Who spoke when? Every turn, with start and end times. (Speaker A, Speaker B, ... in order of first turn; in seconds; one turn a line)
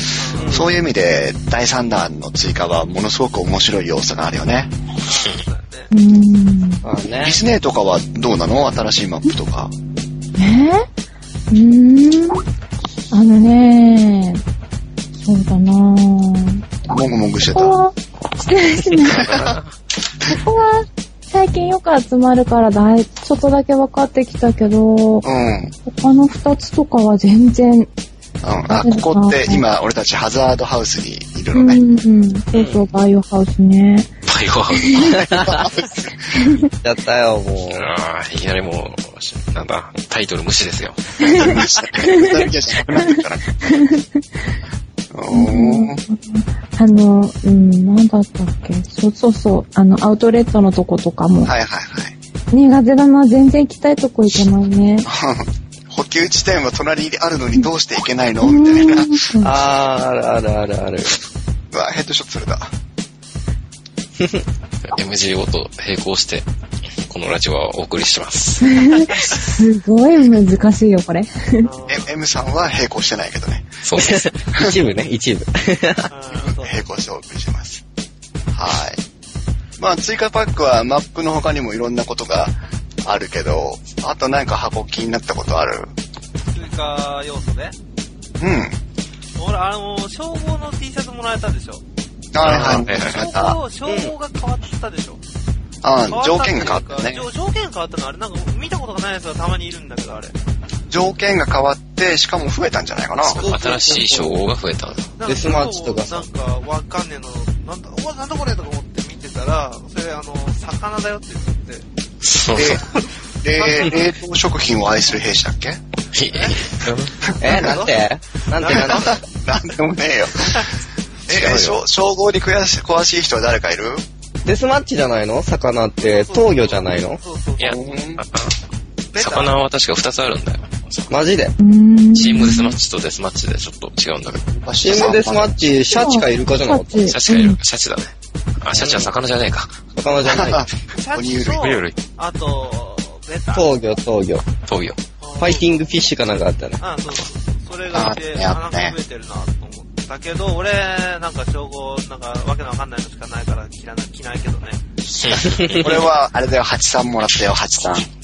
Speaker A: 0.1-0.7
Speaker B: 0.3-4.7
Speaker C: 0.3-0.7
Speaker A: 5.0-5.9
Speaker D: 5.9-6.8
Speaker C: 6.8-7.4
Speaker B: 7.2-9.7
Speaker D: 10.4-10.9
Speaker D: 11.5-12.4
Speaker D: 13.1-14.4
Speaker D: 15.2-16.6
Speaker B: 16.9-17.8
Speaker D: 17.4-19.3
Speaker B: 19.1-19.6
Speaker E: 19.1-19.7
Speaker D: 20.2-25.2
Speaker B: 25.2-25.7
Speaker D: 25.8-27.9
Speaker B: 28.4-31.8
Speaker D: 28.7-29.6
Speaker D: 31.5-34.1
Speaker C: 32.5-32.9
Speaker E: 34.2-35.2
Speaker D: 34.7-35.2
Speaker B: 35.0-36.4
Speaker C: 35.3-35.6
Speaker D: 36.3-36.7
Speaker C: 36.7-37.9
Speaker E: 37.7-41.2
Speaker D: 41.2-44.2
Speaker B: 41.2-44.0
Speaker B: 45.1-46.0
Speaker D: 45.3-51.5
Speaker B: 51.4-52.1
Speaker D: 52.5-55.1
Speaker B: 55.0-59.3
Speaker D: 58.4-59.5
Speaker C: 59.4-61.2
Speaker B: 61.7-62.7
Speaker C: 64.2-64.4
Speaker E: 64.8-66.5
Speaker E: 67.0-68.8
Speaker D: 68.6-71.7
Speaker A: 69.0-69.4
Speaker A: 71.6-72.1
Speaker B: 71.9-73.7
Speaker E: 73.8-74.3
Speaker C: 74.0-76.1
Speaker A: 76.1-76.9
Speaker B: 76.3-77.8
Speaker B: 78.5-79.0
Speaker B: 79.8-85.9
Speaker A: 86.5-87.8
Speaker B: 88.4-88.8
Speaker A: 89.3-91.8
Speaker B: 92.3-93.6
Speaker E: 92.4-93.2
Speaker A: 92.4-95.2
Speaker C: 93.8-94.1
Speaker B: 95.8-97.3
Speaker A: 96.1-100.3
Speaker B: 100.9-103.4
Speaker E: 103.2-105.1
Speaker C: 103.3-104.4
Speaker A: 105.2-111.8
Speaker C: 105.2-106.3
Speaker E: 112.2-112.8
Speaker B: 112.5-112.8
Speaker A: 112.9-114.1
Speaker B: 113.4-115.8
Speaker E: 116.1-117.3
Speaker A: 116.3-116.7
Speaker C: 117.4-119.2
Speaker A: 117.4-118.0
Speaker A: 118.5-119.2
Speaker B: 118.7-120.7
Speaker B: 121.3-124.0
Speaker E: 121.3-121.8
Speaker C: 124.4-127.2
Speaker A: 126.0-127.8
Speaker E: 127.6-128.6
Speaker B: 127.6-128.2
Speaker A: 129.1-129.5
Speaker E: 129.2-131.1
Speaker C: 131.1-131.6
Speaker D: 131.6-132.8
Speaker E: 132.1-134.5
Speaker B: 134.5-135.7
Speaker C: 134.8-137.1
Speaker D: 135.9-137.6
Speaker E: 137.1-139.9
Speaker C: 138.7-139.1
Speaker C: 139.9-140.6
Speaker B: 140.2-141.7
Speaker A: 140.9-143.7
Speaker E: 141.6-142.0
Speaker C: 143.5-144.5
Speaker E: 144.7-145.0
Speaker A: 145.2-145.8
Speaker C: 145.4-146.8
Speaker A: 146.8-154.8
Speaker B: 147.9-148.9
Speaker E: 155.1-156.1
Speaker B: 155.4-158.1
Speaker C: 155.6-155.8